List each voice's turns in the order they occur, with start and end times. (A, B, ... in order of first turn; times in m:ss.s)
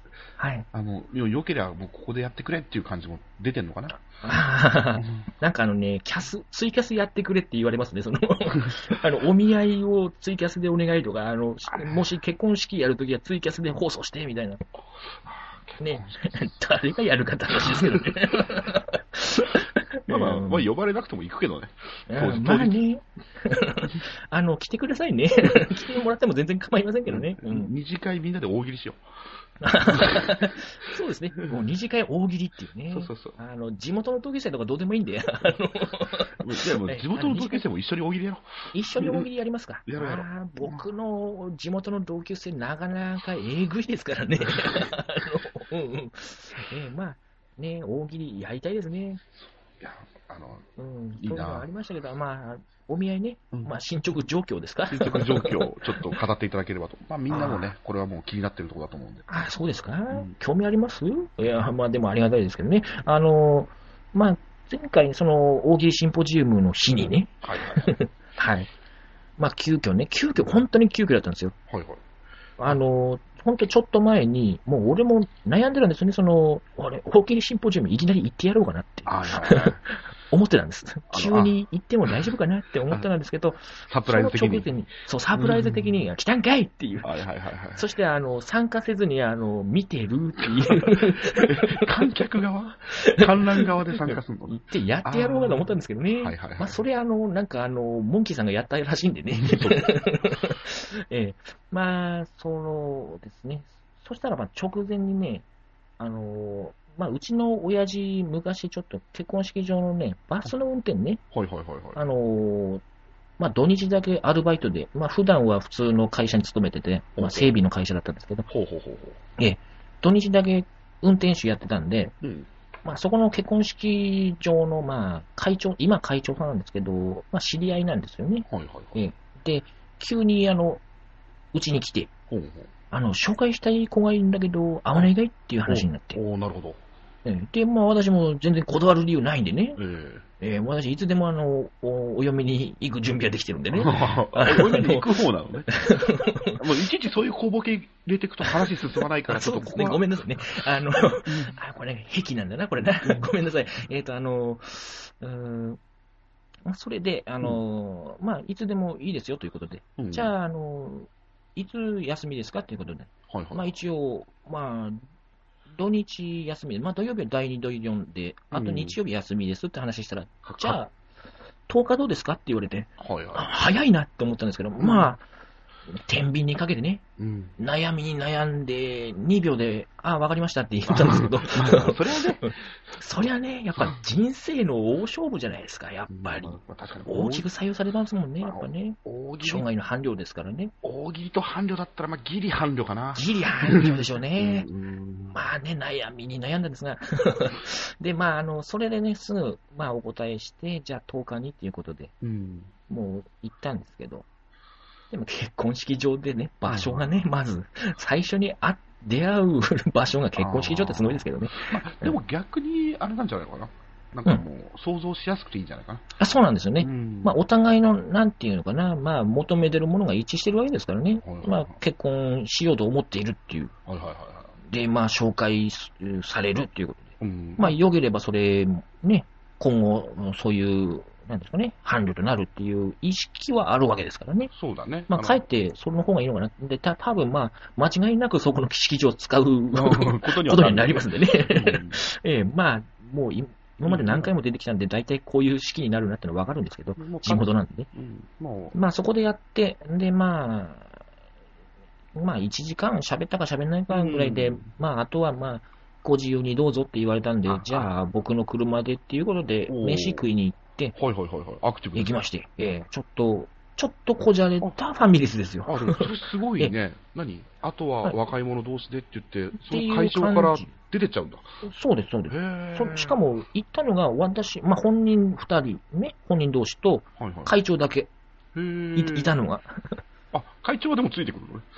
0:00.4-0:00.7 A
0:00.7-0:04.0 B
0:04.2-0:14.6 A
0:11.7-0:12.0 B
0:15.2-0:16.6 B
0:15.8-0:20.7 A
0:17.6-0:18.6 B
0:20.1-0:22.8 B
0:22.1-0:27.7 A
0:25.5-0:25.8 B
0:27.1-0:29.0 B
0:29.6-0:37.6 A
0:29.7-0:30.6 B
0:32.9-0:33.4 B
0:36.4-0:39.3 B
0:38.7-0:49.2 A
0:39.9-0:40.8 B
0:44.6-0:44.9 B
0:49.4-0:51.7 B
0:50.8-0:56.2 A
0:54.9-0:59.3 B
0:57.3-0:57.7 A
0:59.3-1:08.7 A
1:07.4-1:07.9 B
1:09.4-1:11.6 A
1:11.7-1:12.0 B
1:12.6-1:27.2 A
1:19.1-1:19.8 B
1:21.1-1:21.6 B
1:22.1-1:22.3 B
1:23.9-1:24.7 B
1:25.4-1:26.0 B
1:27.0-1:27.9 B
1:27.8-1:32.0 A
1:30.6-1:36.8 B
1:32.9-1:45.4 A
1:39.3-1:39.9 B
1:46.0-1:51.2 A
1:51.3-1:52.0 B
1:52.0-1:52.8 A
1:53.4-1:58.5 A
1:57.2-1:57.6 B
1:58.5-1:59.2 B
1:59.4-2:02.2 A
2:02.2-2:02.5 B
2:02.8-2:10.8 A
2:08.5-2:09.0 B
2:11.5-2:12.1 A
2:12.3-2:12.7 B
2:12.9-2:16.2 A
2:15.7-2:16.8 B
2:17.2-2:19.8 A
2:19.8-2:20.2 B
2:20.4-2:25.2 A
2:23.7-2:25.7 B
2:25.7-2:26.6 A
2:26.6-2:30.6 B
2:28.4-2:28.7 A
2:29.3-2:35.8 A
2:31.2-2:31.6 B
2:36.7-2:45.0 A
2:40.0-2:40.3 B
2:43.3-2:43.6 B
2:45.8-2:50.9 A
2:48.5-2:49.0 B
2:50.4-2:50.8 B
2:51.7-2:55.2 A
2:53.0-2:53.5 B
2:54.8-2:55.1 B
2:55.9-2:57.0 A
2:57.2-2:57.5 B
2:57.6-3:10.7 A
3:00.9-3:02.6 B
3:06.1-3:07.5 B
3:08.4-3:09.7 B
3:10.8-3:15.4 B
3:13.2-3:14.7 A
3:15.3-3:22.1 A
3:22.2-3:22.7 B
3:22.9-3:24.3 A
3:25.1-3:32.2 A
3:26.7-3:27.2 B
3:30.4-3:36.1 B
3:36.2-3:43.7 A
3:36.8-3:37.4 B
3:41.2-3:41.8 B
3:43.9-3:44.5 B
3:44.6-3:54.5 A
3:47.2-3:47.8 B
3:54.5-3:55.4 B
3:55.1-4:07.9 A
3:59.7-4:02.0 B
4:03.9-4:04.3 B
4:07.0-4:08.8 B
4:08.7-4:11.0 A
4:12.2-4:21.0 A
4:13.9-4:14.7 B
4:17.5-4:17.9 B
4:19.7-4:20.3 B
4:21.0-4:22.1 B
4:22.0-4:26.7 A
4:25.7-4:31.6 B
4:29.6-4:30.7 A
4:31.6-4:38.1 A
4:32.3-4:33.2 B
4:37.2-4:37.6 B
4:38.6-4:39.3 B
4:39.0-4:40.0 A
4:40.3-4:41.7 B